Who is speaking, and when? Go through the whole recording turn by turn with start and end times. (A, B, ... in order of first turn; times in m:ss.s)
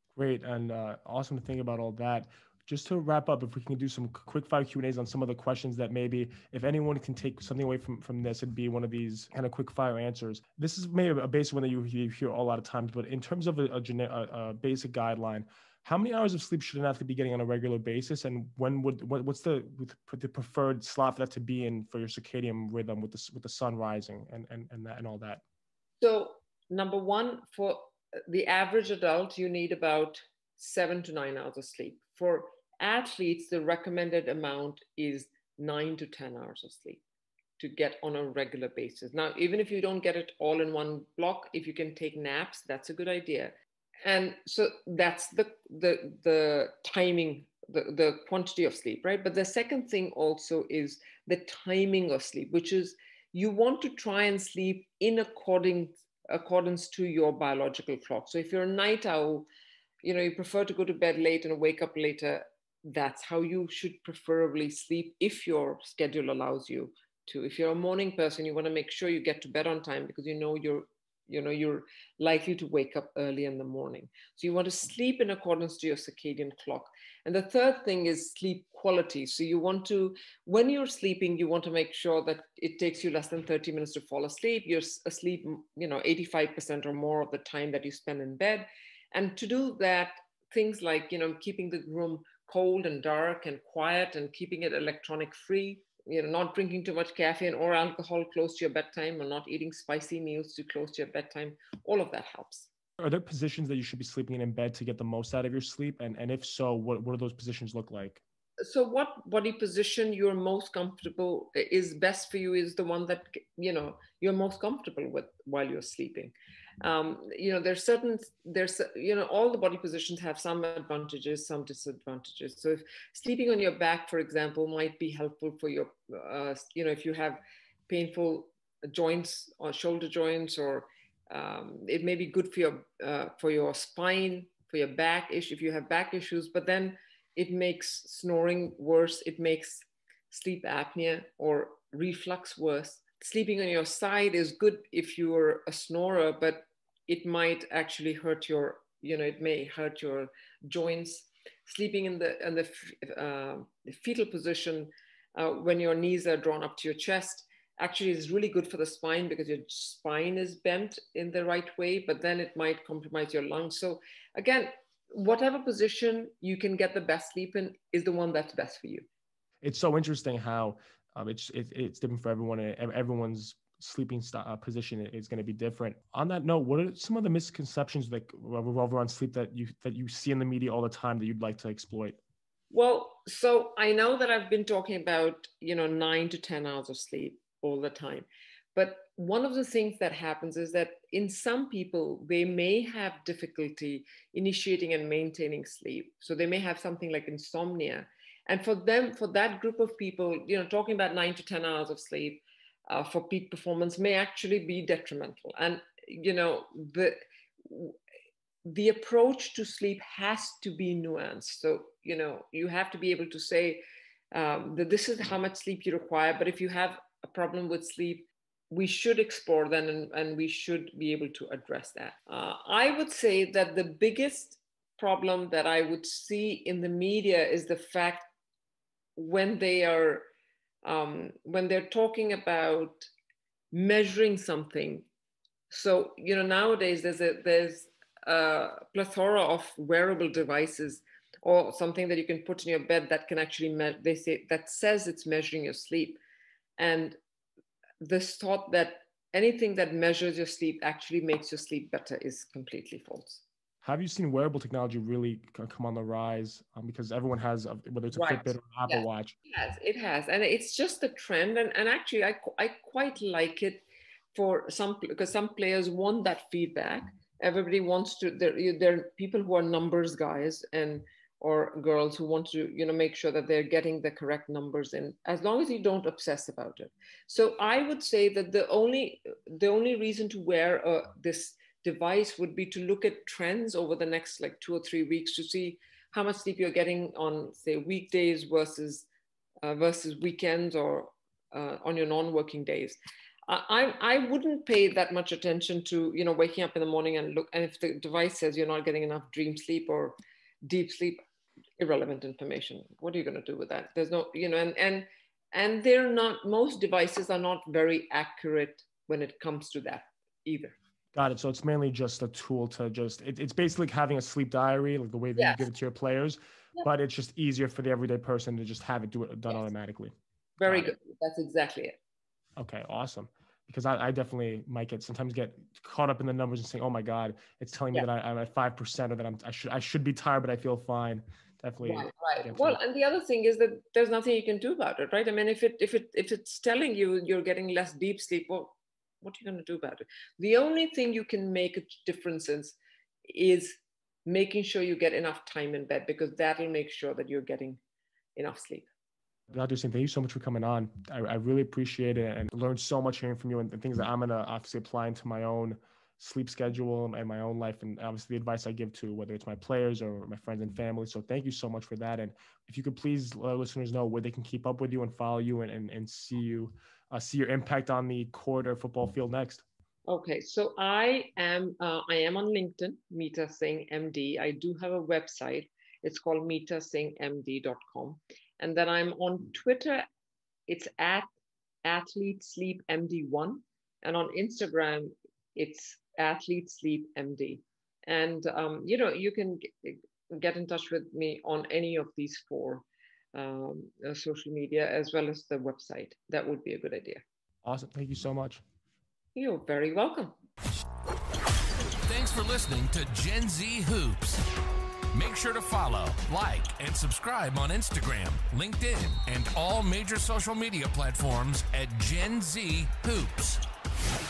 0:00.1-0:25.4 A
0:26.0-0:37.0 B
0:37.6-0:59.5 B
1:00.0-1:42.7 B
1:43.0-1:48.2 A
1:48.6-2:49.0 B
2:49.6-3:02.2 A
3:02.7-3:28.0 B
3:28.6-3:48.3 B
3:49.2-3:50.3 B
3:50.8-3:53.1 B
3:53.7-3:55.1 B
3:55.7-4:06.2 B
4:06.8-4:07.2 B
4:08.0-4:13.4 B
4:13.8-4:19.3 A
4:18.1-4:49.1 B
4:49.6-4:53.0 B
4:53.5-5:01.2 B
5:01.8-5:10.8 B
5:11.1-5:20.1 A
5:15.4-5:15.6 B
5:20.6-5:22.0 B
5:20.6-5:20.9 A
5:22.6-5:32.8 A
5:31.8-5:47.8 B
5:48.4-5:48.9 B
5:49.5-6:09.6 A
6:10.1-6:20.0 B
6:20.7-6:21.3 B
6:21.8-6:37.2 B
6:37.6-6:38.6 A
6:39.3-6:40.3 B
6:42.0-6:44.4 C
6:45.1-6:53.6 C